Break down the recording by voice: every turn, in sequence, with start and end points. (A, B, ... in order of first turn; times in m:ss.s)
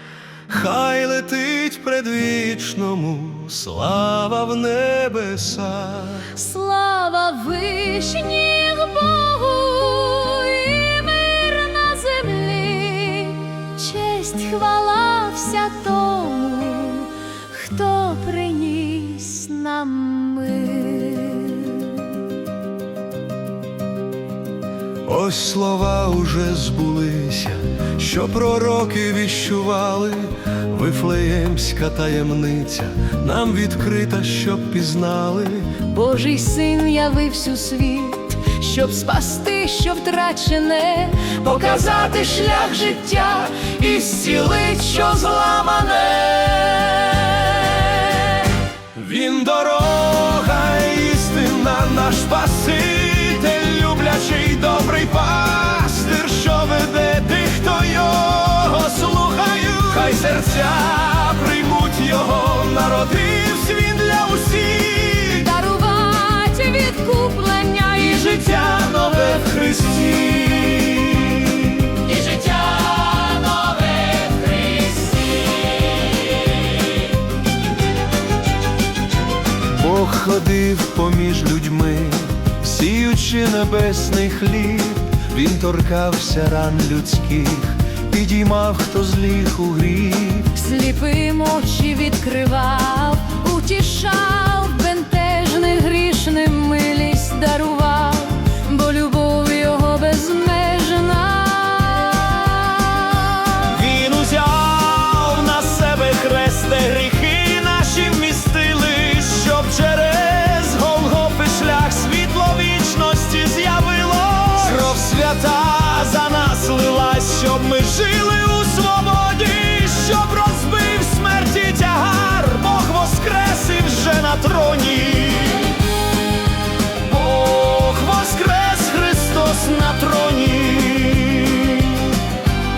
0:00.5-0:06.3 A
0:06.3-0:22.2 B
0:25.1-0:35.8 A
0:35.8-0:48.3 B
0:48.9-1:05.4 A
1:05.4-1:09.2 B
1:08.8-1:12.0 A
1:12.1-1:15.3 B
1:19.7-1:30.5 A
1:30.5-1:43.6 B
1:43.6-2:05.8 A
2:07.0-2:12.2 A